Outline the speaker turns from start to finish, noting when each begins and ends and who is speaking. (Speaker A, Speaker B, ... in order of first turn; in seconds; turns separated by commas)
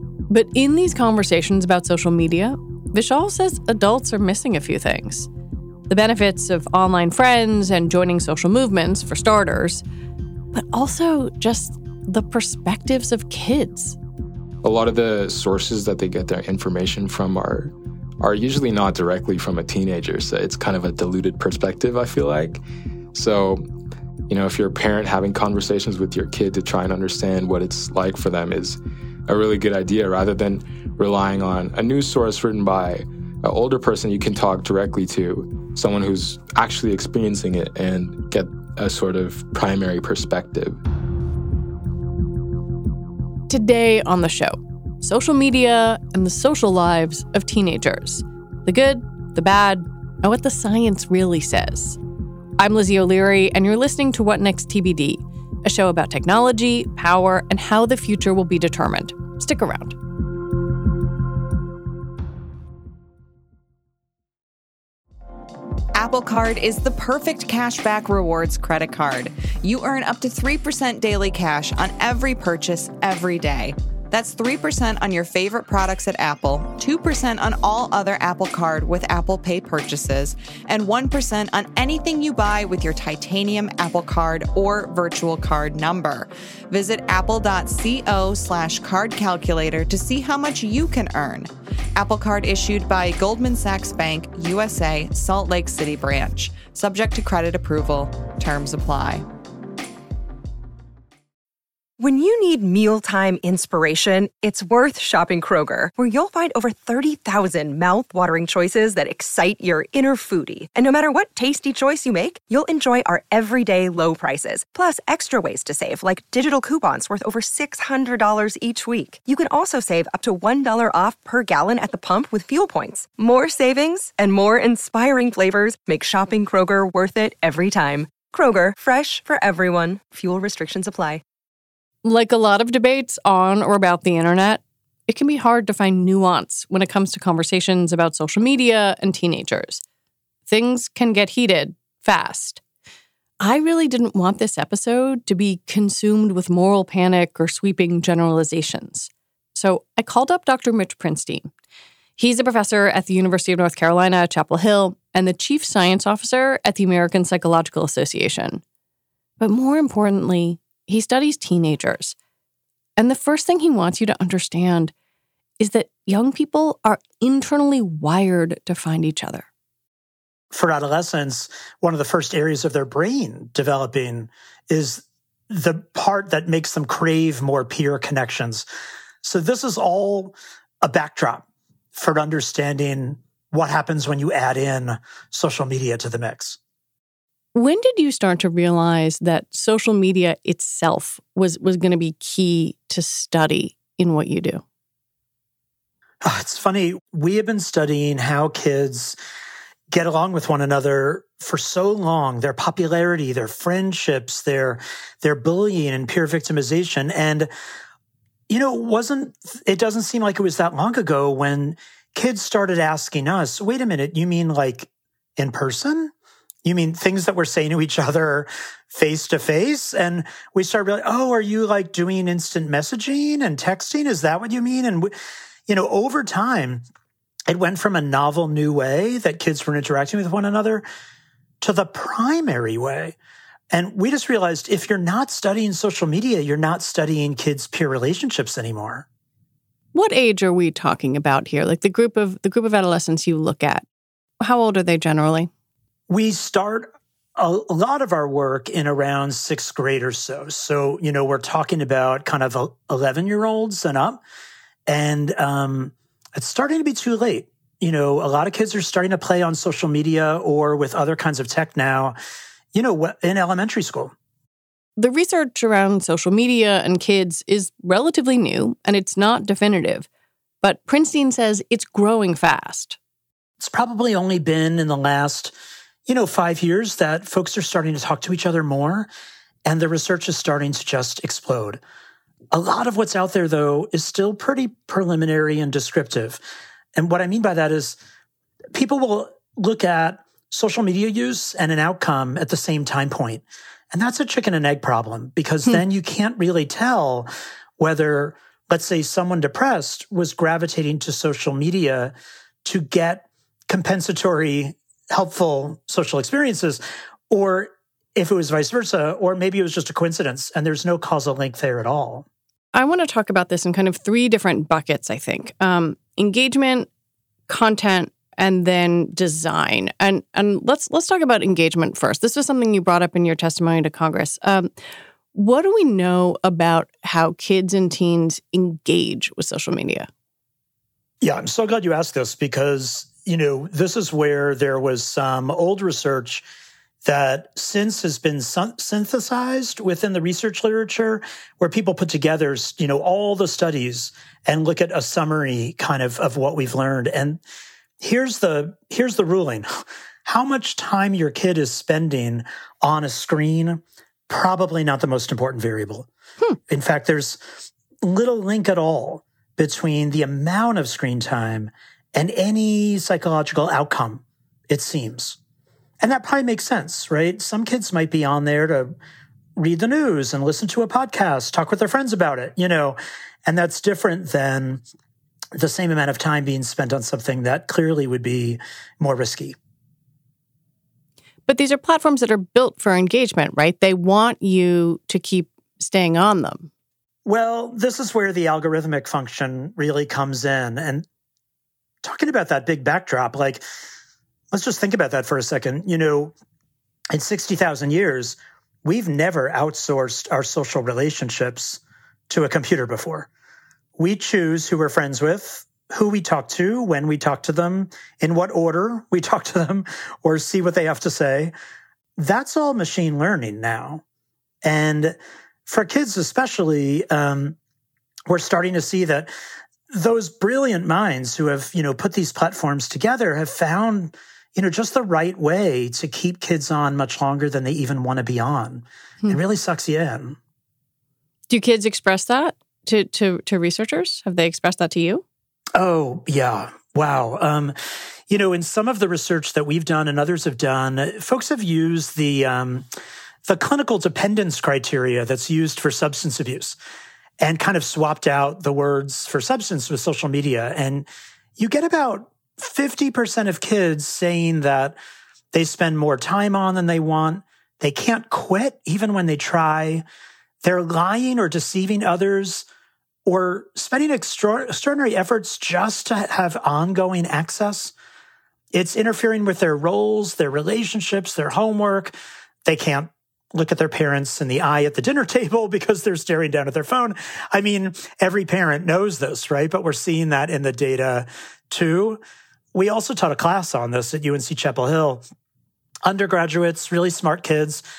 Speaker A: 0.3-5.3, Speaker A: 5.9-9.8, Speaker A: 10.5-14.0, Speaker B: 14.6-22.6, Speaker B: 23.1-23.6, Speaker B: 24.3-40.8, Speaker A: 43.5-52.0, Speaker A: 52.6-60.0, Speaker C: 66.0-99.3, Speaker D: 102.0-131.2, Speaker A: 132.0-139.8, Speaker A: 140.5-142.6, Speaker A: 143.4-151.5, Speaker A: 152.2-158.6, Speaker A: 159.4-162.2, Speaker A: 163.0-164.9, Speaker A: 165.6-169.5, Speaker E: 170.5-178.7, Speaker E: 179.2-186.6, Speaker A: 187.6-194.6, Speaker E: 196.2-199.2, Speaker E: 199.9-207.5, Speaker E: 208.5-216.1, Speaker E: 216.6-225.1, Speaker E: 225.7-226.8, Speaker E: 227.5-230.8, Speaker E: 231.6-233.2, Speaker E: 233.7-239.1, Speaker A: 239.9-243.9, Speaker A: 244.4-245.5, Speaker E: 246.1-254.2, Speaker E: 254.9-262.2, Speaker E: 262.7-264.1, Speaker A: 265.0-270.1, Speaker A: 270.6-273.0, Speaker E: 273.6-275.5, Speaker E: 276.1-279.1, Speaker E: 279.7-281.8, Speaker E: 282.5-286.4, Speaker E: 286.9-288.0, Speaker E: 288.7-302.1, Speaker E: 302.6-312.3, Speaker A: 312.7-316.9, Speaker A: 317.5-324.7, Speaker A: 325.3-330.1, Speaker E: 331.2-336.4, Speaker E: 337.1-347.4, Speaker E: 348.0-356.1, Speaker E: 356.7-357.4, Speaker E: 358.0-365.4, Speaker E: 366.0-368.9, Speaker E: 369.6-374.8, Speaker E: 375.5-379.6, Speaker A: 381.5-386.7, Speaker E: 387.2-391.1, Speaker E: 392.0-393.6, Speaker E: 394.5-396.4, Speaker E: 397.1-403.3, Speaker E: 404.0-411.5, Speaker E: 412.2-414.0, Speaker E: 414.6-417.6, Speaker E: 418.3-419.3, Speaker E: 419.9-430.4, Speaker A: 431.5-435.2, Speaker E: 435.8-437.8, Speaker E: 438.3-442.9, Speaker E: 443.4-446.8, Speaker E: 447.4-455.0, Speaker E: 455.5-460.1, Speaker E: 460.6-462.7, Speaker E: 463.3-467.9, Speaker E: 468.7-482.2, Speaker E: 482.7-485.2, Speaker E: 486.0-487.8